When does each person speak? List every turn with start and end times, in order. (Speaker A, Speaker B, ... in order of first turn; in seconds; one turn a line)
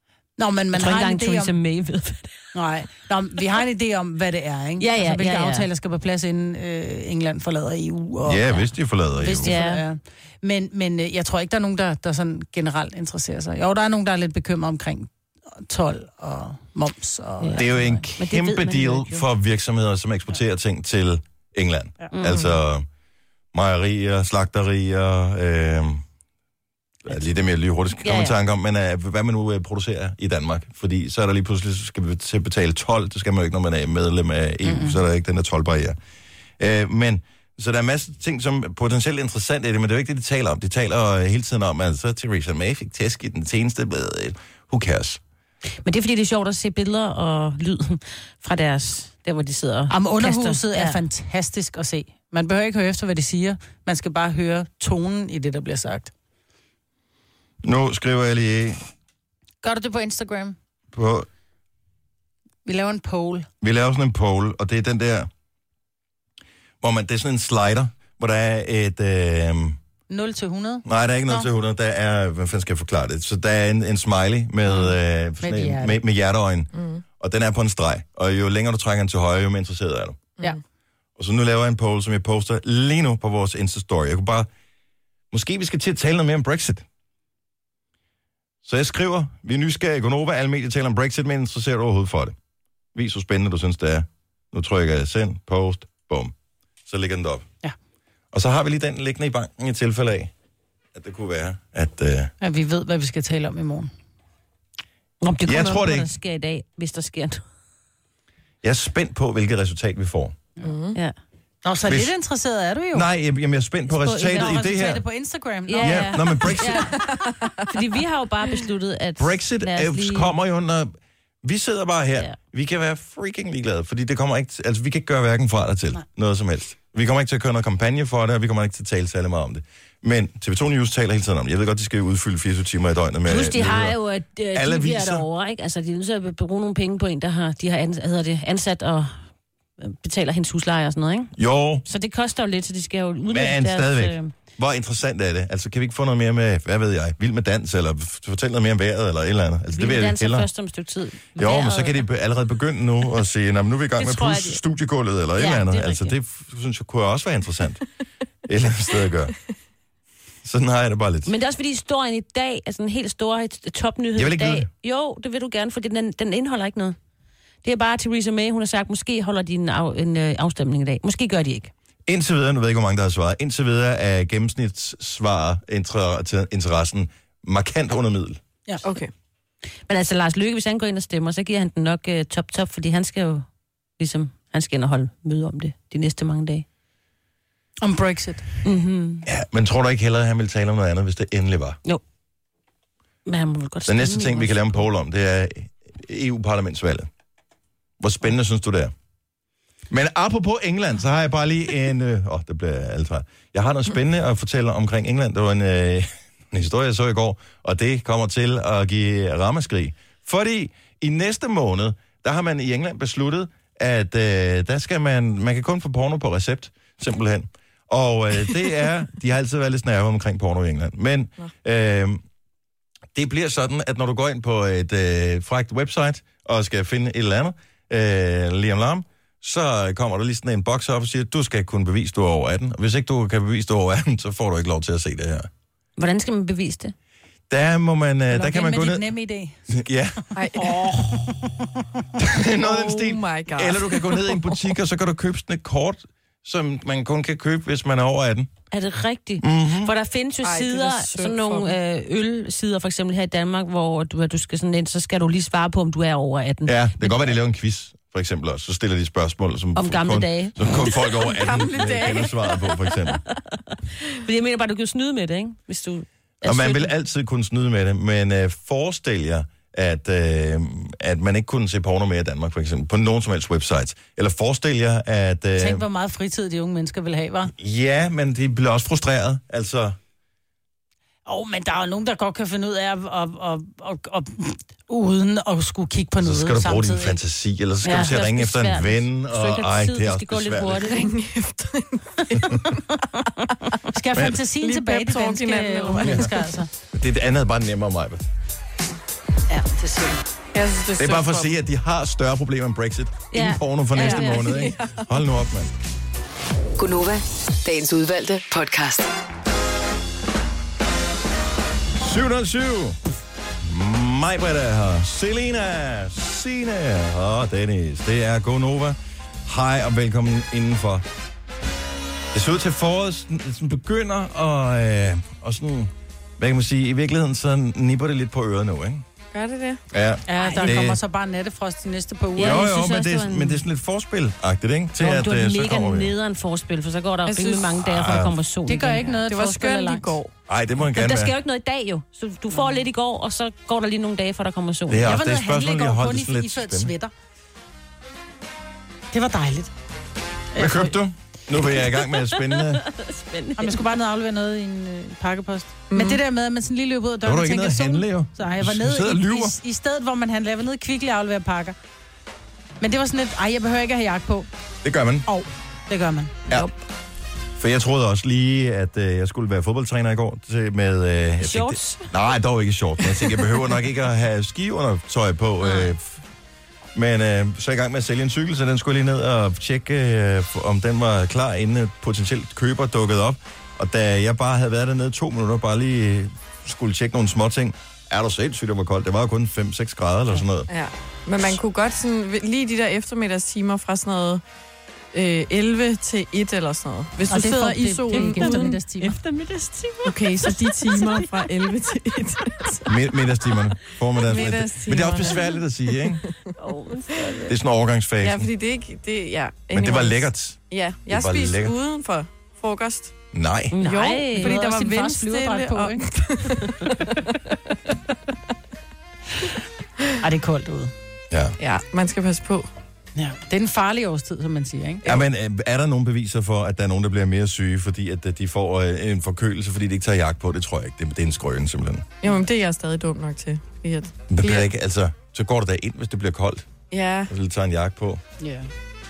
Speaker A: 0.4-1.5
Speaker B: 0.7-2.4
Speaker A: 2.5-8.6
Speaker B: 4.8-5.7
Speaker C: 8.2-9.5
Speaker A: 9.2-18.0
Speaker B: 9.4-9.8
Speaker C: 17.6-22.9
Speaker B: 18.2-19.2
Speaker B: 22.1-22.5
Speaker C: 23.5-26.0
Speaker C: 27.1-36.0
Speaker B: 28.0-28.3
Speaker A: 34.6-35.0
Speaker C: 36.6-45.2
Speaker B: 45.8-51.0
Speaker A: 49.9-56.1
Speaker C: 57.6-58.8
Speaker A: 59.6-60.5
Speaker C: 60.9-61.3
Speaker A: 62.6-63.5
Speaker C: 63.6-65.3
Speaker C: 66.8-69.8
Speaker A: 70.1-71.5
Speaker C: 70.8-80.3
Speaker A: 75.4-76.0
Speaker D: 76.7-77.0
Speaker C: 81.2-84.5
Speaker C: 85.3-86.8
Speaker C: 88.6-92.3
Speaker C: 92.9-96.3
Speaker C: 96.9-97.5
Speaker C: 98.3-100.3
Speaker C: 100.9-102.3
Speaker A: 102.4-103.9
Speaker B: 105.2-107.4
Speaker C: 105.5-106.1
Speaker C: 108.6-110.4
Speaker D: 110.6-111.0
Speaker A: 111.6-113.0
Speaker C: 112.9-115.0
Speaker B: 114.0-114.7
Speaker A: 114.2-116.5
Speaker B: 115.7-120.3
Speaker C: 115.8-116.8
Speaker D: 116.7-117.8
Speaker C: 119.2-134.0
Speaker B: 133.2-139.2
Speaker C: 134.5-135.2
Speaker B: 139.8-141.3
Speaker C: 141.4-141.8
Speaker B: 141.8-144.3
Speaker C: 143.3-150.5
Speaker B: 149.7-152.0
Speaker C: 151.3-157.8
Speaker B: 154.0-154.6
Speaker B: 155.4-156.1
Speaker C: 158.4-159.3
Speaker C: 160.4-161.3
Speaker B: 161.2-167.0
Speaker C: 164.1-164.7
Speaker B: 167.6-171.7
Speaker C: 172.1-178.4
Speaker D: 178.8-179.1
Speaker B: 179.9-183.4
Speaker B: 184.0-186.6
Speaker A: 187.8-188.4
Speaker B: 188.6-189.2
Speaker C: 189.2-191.8
Speaker B: 193.2-194.9
Speaker C: 193.9-197.1
Speaker C: 198.0-198.9
Speaker C: 199.9-222.2
Speaker C: 223.1-235.5
Speaker B: 236.0-236.9
Speaker C: 237.5-239.1
Speaker A: 238.3-239.7
Speaker C: 239.7-240.2
Speaker D: 240.3-240.9
Speaker A: 240.5-241.8
Speaker C: 242.2-248.5
Speaker D: 242.6-244.6
Speaker B: 248.7-257.3
Speaker C: 249.4-249.9
Speaker D: 250.4-251.7
Speaker C: 256.6-263.2
Speaker B: 259.8-260.6
Speaker D: 261.0-262.9
Speaker B: 264.1-266.9
Speaker C: 266.4-275.8
Speaker A: 275.6-277.5
Speaker C: 277.5-280.0
Speaker A: 281.2-287.2
Speaker C: 286.2-290.9
Speaker B: 287.8-291.1
Speaker D: 290.9-292.8
Speaker C: 292.3-292.6
Speaker A: 293.9-296.7
Speaker D: 294.3-296.5
Speaker C: 296.0-296.3
Speaker C: 296.9-298.2
Speaker A: 299.5-300.2
Speaker D: 300.5-301.5
Speaker C: 301.0-305.7
Speaker B: 303.3-304.8
Speaker D: 304.0-305.1
Speaker E: 306.8-309.1
Speaker C: 311.9-313.0
Speaker C: 313.6-321.0
Speaker C: 322.3-329.0
Speaker D: 329.3-329.8
Speaker C: 329.9-331.0
Speaker A: 330.3-332.7
Speaker B: 332.4-333.6
Speaker C: 332.4-336.1
Speaker B: 335.0-339.1
Speaker D: 337.2-337.7
Speaker C: 337.8-338.4
Speaker A: 338.7-340.1
Speaker D: 339.1-340.3
Speaker C: 340.5-341.3
Speaker B: 340.9-345.1
Speaker C: 344.9-346.9
Speaker A: 345.0-347.1
Speaker A: 349.1-349.7
Speaker A: 350.5-350.9
Speaker C: 350.6-352.8
Speaker B: 351.7-353.8
Speaker A: 353.6-361.8
Speaker D: 355.9-356.2
Speaker C: 357.2-359.6
Speaker A: 362.8-364.5
Speaker C: 364.8-365.2
Speaker A: 365.2-366.3
Speaker C: 367.6-376.2
Speaker B: 371.4-372.1
Speaker B: 375.6-375.9
Speaker C: 376.9-390.7
Speaker D: 390.7-394.4
Speaker D: 395.1-398.8
Speaker A: 397.3-399.2
Speaker B: 398.1-401.5
Speaker D: 400.0-402.9
Speaker C: 402.9-406.2
Speaker D: 404.2-405.6
Speaker B: 406.6-407.5
Speaker C: 407.5-408.5
Speaker D: 408.2-413.1
Speaker C: 409.7-411.8
Speaker C: 413.3-413.8
Speaker B: 413.7-414.6
Speaker D: 413.8-417.4
Speaker A: 414.4-416.1
Speaker A: 420.2-420.9
Speaker C: 421.3-421.6
Speaker D: 421.6-422.7
Speaker A: 423.1-425.0
Speaker C: 425.0-432.1
Speaker D: 432.2-434.7
Speaker C: 434.3-436.7
Speaker D: 436.9-437.3
Speaker C: 437.3-438.2
Speaker A: 438.4-438.7